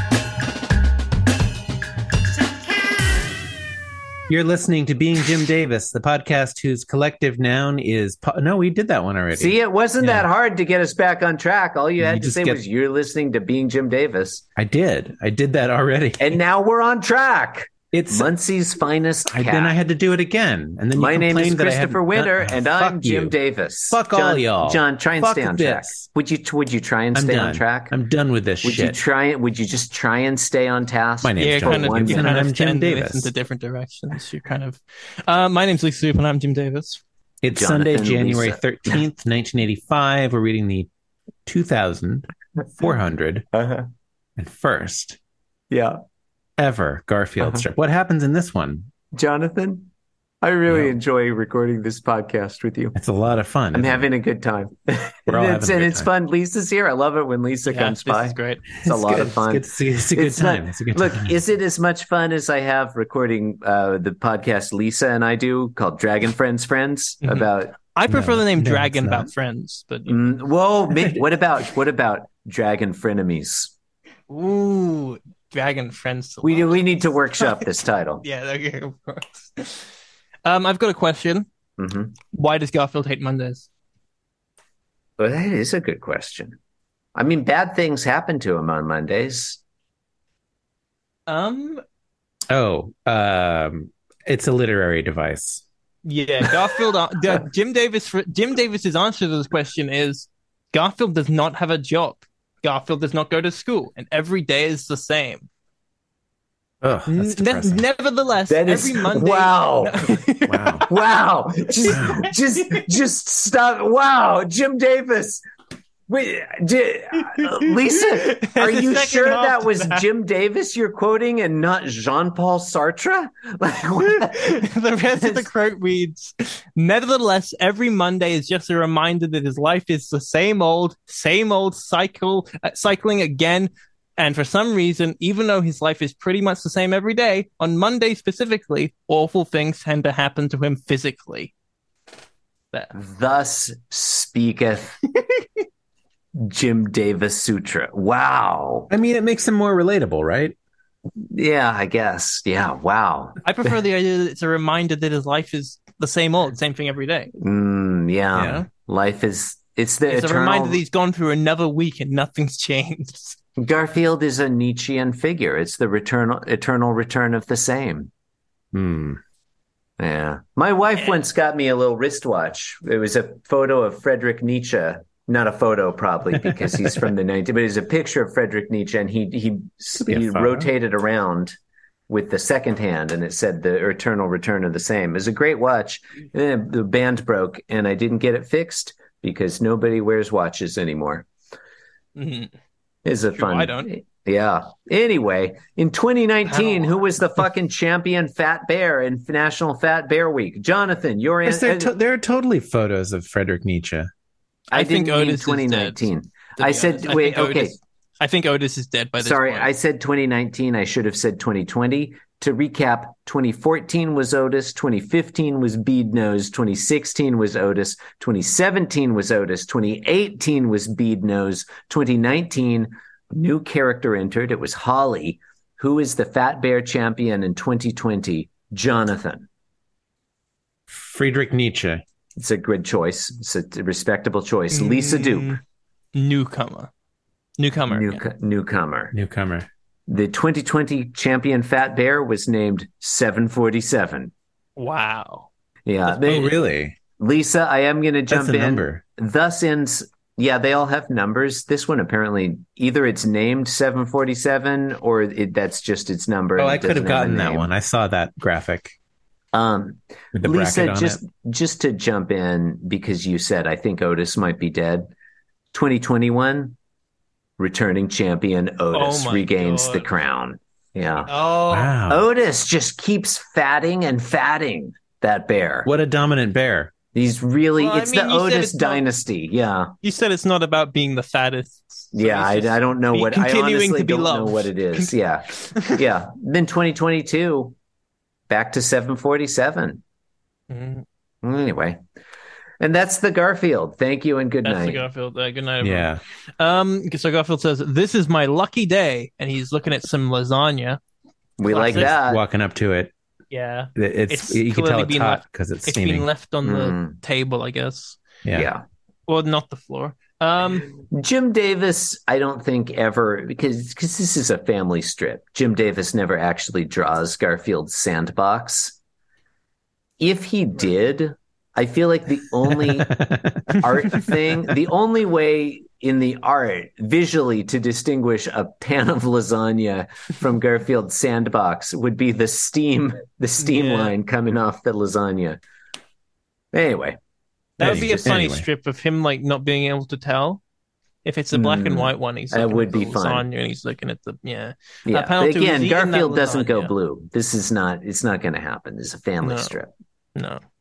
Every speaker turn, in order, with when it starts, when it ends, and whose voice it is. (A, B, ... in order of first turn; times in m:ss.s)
0:04.3-0:10.3 A
0:09.3-0:14.4 B
0:12.0-0:12.6 A
0:14.6-0:16.4 A
0:16.2-0:19.8 B
0:17.9-0:18.3 A
0:19.3-0:23.4 A
0:20.9-0:28.0 B
0:23.9-0:26.0 A
0:27.1-0:29.0 A
0:28.6-0:32.4 B
0:31.2-0:33.3 A
0:31.4-0:37.0 C
0:37.4-0:40.9 A
0:37.5-0:39.0 B
0:41.4-0:42.3 A
0:42.8-0:43.5 A
0:43.5-0:43.8 B
0:44.4-0:45.2 A
0:45.7-0:46.0 B
0:46.6-0:48.9 A
0:47.4-0:47.7 B
0:49.1-0:49.9 B
0:50.4-0:52.9 B
0:50.7-0:50.9 A
0:52.9-0:54.1 A
0:53.7-1:07.8 B
0:55.3-0:56.1 A
0:57.6-0:58.6 C
0:58.8-1:01.4 A
1:07.2-1:10.2 C
1:08.1-1:09.3 A
1:10.1-1:13.7 B
1:11.0-1:11.2 A
1:14.3-1:17.7 C
1:16.4-1:18.2 B
1:18.2-1:19.9 C
1:20.4-1:21.5 C
1:21.8-1:22.1 B
1:22.3-1:23.7 C
1:25.2-1:26.6 B
1:27.1-1:29.6 B
1:31.3-1:31.8 C
1:32.5-1:35.6 A
1:36.0-1:45.5 C
1:46.8-1:47.8 A
1:47.0-1:50.8 C
1:48.5-1:50.2 B
1:50.5-1:50.8 A
1:50.9-1:55.4 B
1:51.9-1:52.2 C
1:51.9-1:52.2 A
1:56.1-2:04.6 B
1:57.2-2:00.0 C
2:04.0-2:21.5 C
2:05.2-2:05.5 B
2:22.9-2:25.0 B
2:26.4-2:28.9 B
2:28.9-2:30.6 A
2:31.2-2:33.4 B
2:33.4-2:37.3 C
2:37.4-2:40.8 B
2:38.3-2:38.6 A
2:38.4-2:38.7 C
2:40.1-2:43.4 C
2:43.6-2:48.1 B
2:48.7-2:49.2 A
2:50.0-3:01.6 B
2:50.9-2:51.2 C
3:00.0-3:00.7 A
3:02.1-3:11.3 B
3:12.2-3:12.5 C
3:13.0-3:21.9 B
3:13.3-3:13.9 C
3:16.4-3:17.0 C
3:21.4-3:24.1 A
3:24.7-3:27.8 B
3:24.7-3:29.7 C
3:29.2-3:49.5 B
3:50.9-3:52.0 A
3:52.4-3:55.6 B
3:54.7-3:55.6 C
3:56.1-3:56.9 C
3:57.6-3:58.2 C
3:57.9-3:59.1 B
3:59.1-3:59.7 A
4:00.1-4:04.3 B
4:04.8-4:05.5 C
4:05.8-4:06.6 B
4:06.1-4:07.0 A
4:07.2-4:17.7 B
4:08.3-4:09.0 A
4:16.6-4:18.9 A
4:19.5-4:25.1 B
4:20.3-4:21.2 A
4:25.7-4:26.8 B
4:27.6-4:31.3 B
4:28.9-4:30.1 C
4:31.3-4:31.9 C
4:31.7-4:32.2 A
4:32.1-4:35.9 B
4:35.8-4:36.9 A
4:37.1-4:39.9 B
4:37.8-4:39.0 C
4:40.0-4:46.0 C
4:42.1-4:47.7 B
4:48.5-4:50.0 B
4:50.7-4:51.0 C
4:51.4-4:52.0 B
4:52.8-4:55.0 B
4:54.6-5:01.0 C
4:55.8-4:56.2 A
5:01.6-5:02.4 B
5:01.6-5:02.2 C
5:01.9-5:03.1 A
5:03.5-5:08.2 C
5:04.0-5:06.3 A
5:06.6-5:07.2 B
5:08.4-5:08.7 A
5:08.5-5:08.8 B
5:09.3-5:10.9 C
5:11.1-5:19.0 B
5:20.2-5:23.1 B
5:22.9-5:24.7 A
5:23.8-5:35.6 B
5:33.6-5:34.1 C
5:36.7-5:37.2 B
5:37.8-5:40.6 C
5:37.8-5:38.4 B
5:37.8-5:38.7 A
5:41.2-5:46.9 C
5:41.5-5:43.4 B
5:45.0-5:49.9 B
5:49.4-5:49.8 C
5:50.3-5:50.6 C